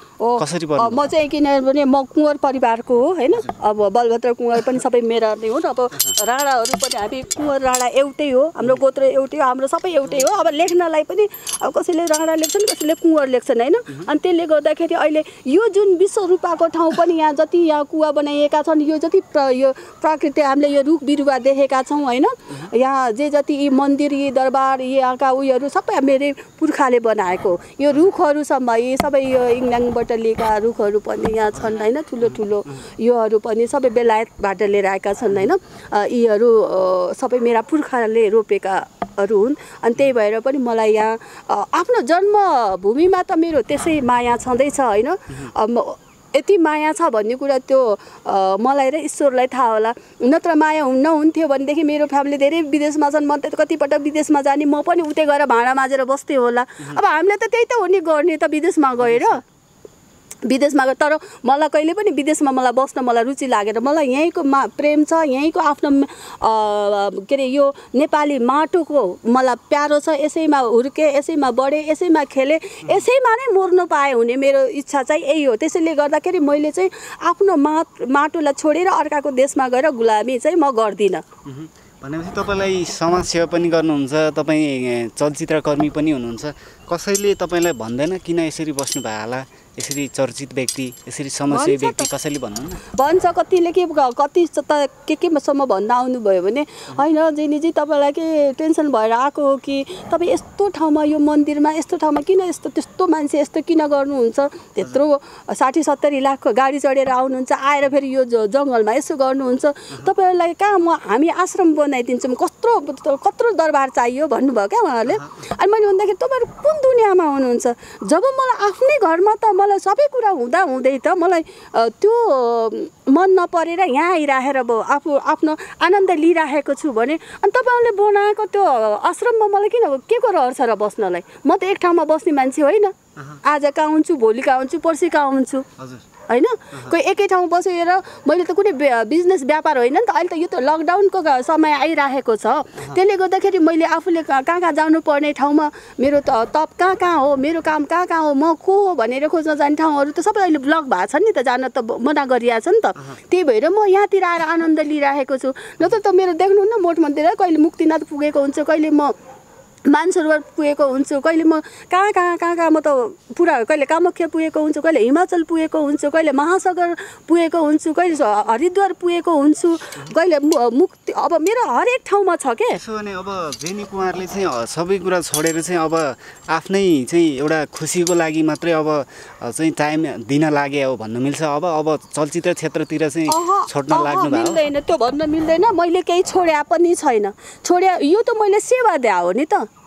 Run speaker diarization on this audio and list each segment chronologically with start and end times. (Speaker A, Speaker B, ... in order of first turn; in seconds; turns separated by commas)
Speaker A: 0.2-59.4, Speaker B: 0.4-1.0, Speaker B: 3.3-3.6, Speaker B: 10.1-10.7, Speaker B: 31.5-32.8, Speaker B: 59.0-59.4, Speaker A: 60.4-81.2, Speaker B: 81.4-92.8, Speaker A: 91.5-92.1, Speaker A: 92.9-135.7, Speaker B: 133.2-133.4, Speaker B: 135.8-136.1, Speaker A: 136.3-159.1, Speaker B: 136.7-137.0, Speaker A: 159.8-172.8, Speaker B: 172.7-184.6, Speaker A: 183.3-189.7